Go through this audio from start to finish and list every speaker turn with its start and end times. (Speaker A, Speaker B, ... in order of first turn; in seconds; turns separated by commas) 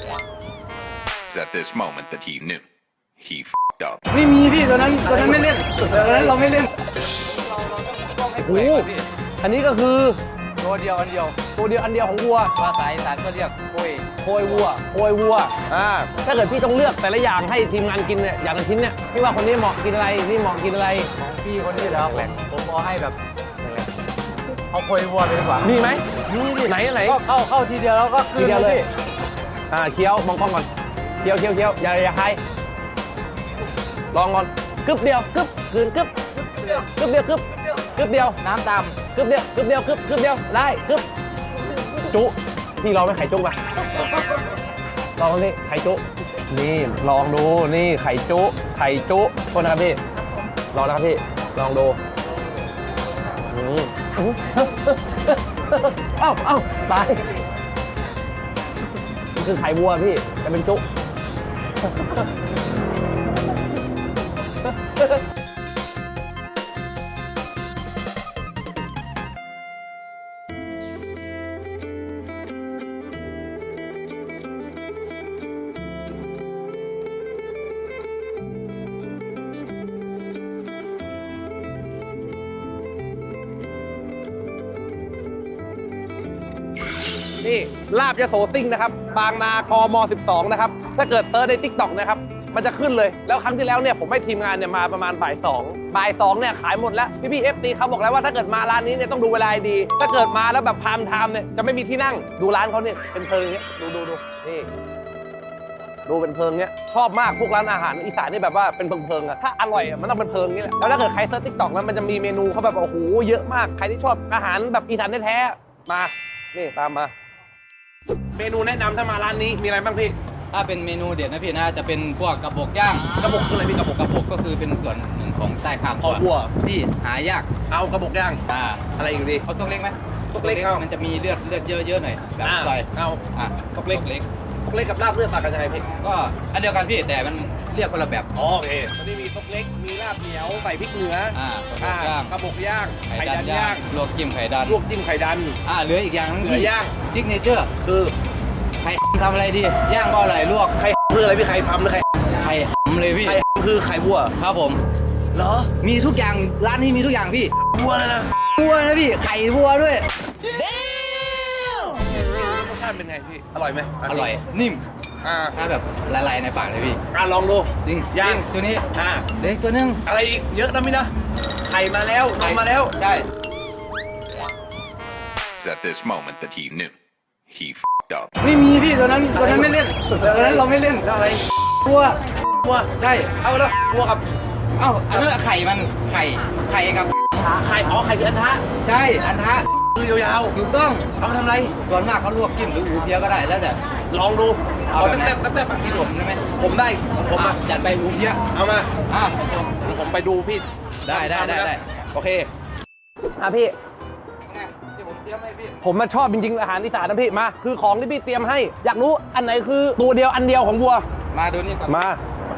Speaker A: 1.3-2.6, Speaker A: 3.2-4.0, Speaker B: 4.1-9.1, Speaker C: 5.0-6.6, Speaker C: 8.4-8.9, Speaker C: 9.4-10.2, Speaker B: 10.6-11.4, Speaker C: 11.6-12.5, Speaker B: 12.6-14.1, Speaker C: 14.2-21.1, Speaker B: 21.2-23.1, Speaker C: 21.7-22.4, Speaker B: 24.7-28.9, Speaker C: 25.6-26.1, Speaker C: 26.6-27.2, Speaker C: 28.3-28.8, Speaker C: 29.7-30.7, Speaker C: 31.2-32.4, Speaker C: 34.1-38.4, Speaker B: 38.4-39.0, Speaker C: 39.1-41.0, Speaker C: 41.9-43.6, Speaker C: 45.2-50.0, Speaker C: 50.7-52.0, Speaker C: 53.5-57.2, Speaker C: 59.4-60.8, Speaker C: 61.8-62.3, Speaker C: 64.7-65.1, Speaker C: 87.4-104.7, Speaker C: 106.1-117.1, Speaker C: 118.3-120.2, Speaker B: 120.5-127.5, Speaker C: 123.2-123.9, Speaker C: 126.0-126.5, Speaker C: 127.7-128.4, Speaker B: 128.5-128.9, Speaker C: 129.0-129.4, Speaker B: 129.4-134.2, Speaker C: 130.3-130.8, Speaker C: 132.4-133.2, Speaker C: 133.8-134.1, Speaker C: 134.7-135.8, Speaker B: 135.9-138.3, Speaker C: 138.3-143.8, Speaker B: 141.3-142.3, Speaker B: 143.1-144.8, Speaker C: 144.7-145.6, Speaker B: 145.6-147.7, Speaker C: 146.4-146.9, Speaker C: 147.8-148.1, Speaker B: 148.8-150.8, Speaker C: 150.8-152.1, Speaker B: 152.3-153.4, Speaker C: 153.2-154.3, Speaker B: 154.3-154.8, Speaker C: 155.3-155.7, Speaker B: 155.8-157.5, Speaker C: 157.8-158.3, Speaker B: 158.6-160.1, Speaker C: 160.5-164.4, Speaker B: 164.1-164.8, Speaker C: 165.2-165.6, Speaker B: 165.6-167.0, Speaker C: 167.1-168.4, Speaker B: 167.8-170.0, Speaker C: 168.9-169.2, Speaker C: 170.1-171.1, Speaker C: 171.7-172.9, Speaker B: 172.4-173.2, Speaker A: 175.6-176.9, Speaker A: 177.5-178.3, Speaker B: 178.4-181.1, Speaker C: 179.3-181.4, Speaker B: 181.8-182.2, Speaker C: 182.6-182.9, Speaker B: 183.0-183.4, Speaker C: 183.4-184.2, Speaker B: 184.8-187.4, Speaker C: 187.4-188.7, Speaker B: 188.8-189.7, Speaker C: 189.9-190.6, Speaker B: 190.5-191.1, Speaker C: 191.2-191.7, Speaker B: 191.8-193.8, Speaker C: 194.1-197.6, Speaker B: 194.9-196.4, Speaker B: 197.2-198.4, Speaker C: 198.5-198.9, Speaker B: 199.1-200.0, Speaker C: 199.8-202.5, Speaker B: 201.0-201.8, Speaker C: 203.4-203.8, Speaker B: 204.4-205.8, Speaker C: 205.8-211.1, Speaker B: 211.3-212.0, Speaker C: 211.9-212.2